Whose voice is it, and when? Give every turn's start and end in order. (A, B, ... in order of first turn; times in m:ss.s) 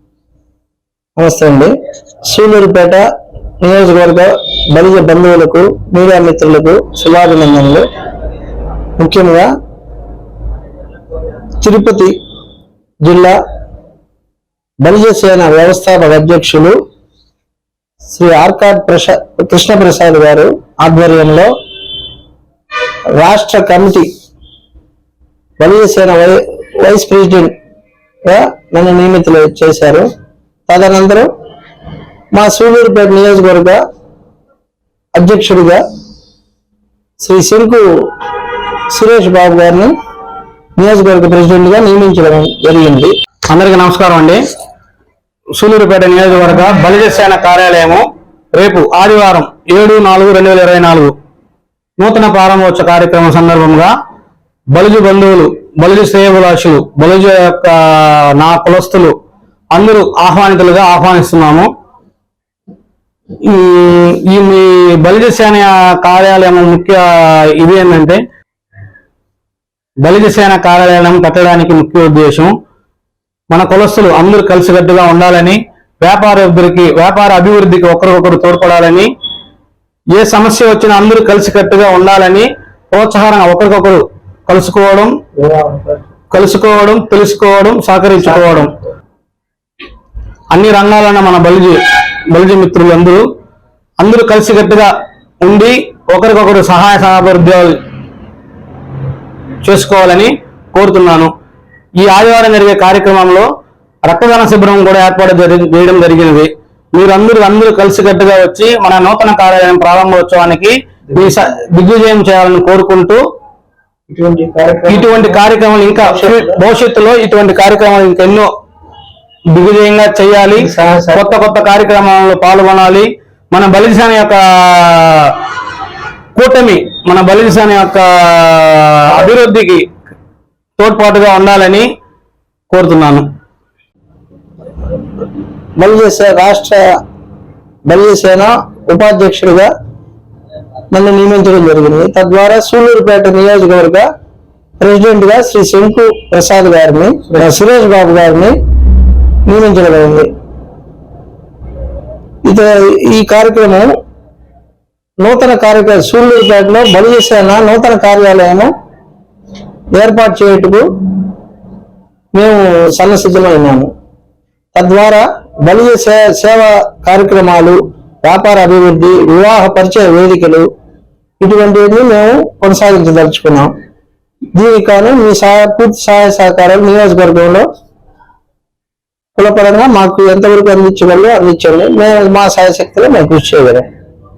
0:01.2-0:01.7 A
0:02.3-0:03.0 A
0:03.6-0:07.8 A
0:09.0-0:09.5 A
0:11.6-0:12.1 A
0:13.0-0:13.4 A
0:14.8-0:16.8 A
0:18.0-0:21.5 A
0:23.1-0:24.1 A
0:25.6-0:27.5 A
0:28.2-0:30.1 A
0:30.7-0:31.3 A
0:32.3-0:33.8 A
0:35.1-0:35.8 A
0:37.2-0:37.8 A
0:38.9-0:39.9 A
0:40.8-0:43.1 A
0:43.5-0:44.4 B
0:45.6-0:48.0 B
0:48.6-0:51.1 B
0:52.0-0:53.9 B
0:54.7-0:59.1 B
0:59.8-1:01.7 B
1:03.4-1:07.0 B
1:07.6-1:08.2 B
1:10.0-1:12.5 B
1:13.5-1:19.1 B
1:20.2-1:25.1 B
1:25.4-1:26.0 A
1:26.3-1:28.7 B
1:28.2-1:28.7 A
1:30.5-1:31.8 B
1:32.3-1:33.2 B
1:34.0-1:34.9 B
1:35.4-1:37.8 B
1:39.6-1:41.3 B
1:42.0-1:43.5 B
1:44.1-1:53.2 B
1:54.1-1:55.4 A
1:54.9-1:58.5 B
1:56.0-1:56.6 A
1:59.5-2:00.5 B
2:00.6-2:01.3 A
2:01.4-2:04.4 B
2:06.4-2:08.5 B
2:09.1-2:09.8 B
2:10.8-2:11.9 B
2:12.7-2:13.2 B
2:15.8-2:16.8 A
2:17.8-2:19.7 A
2:20.9-2:24.1 A
2:24.8-2:28.6 A
2:29.5-2:30.3 A
2:32.4-2:33.9 A
2:35.2-2:38.7 A
2:39.9-2:40.8 A
2:42.3-2:43.9 A
2:44.8-2:50.7 A
2:51.4-2:53.7 A
2:54.6-2:57.7 A
2:59.4-3:03.9 A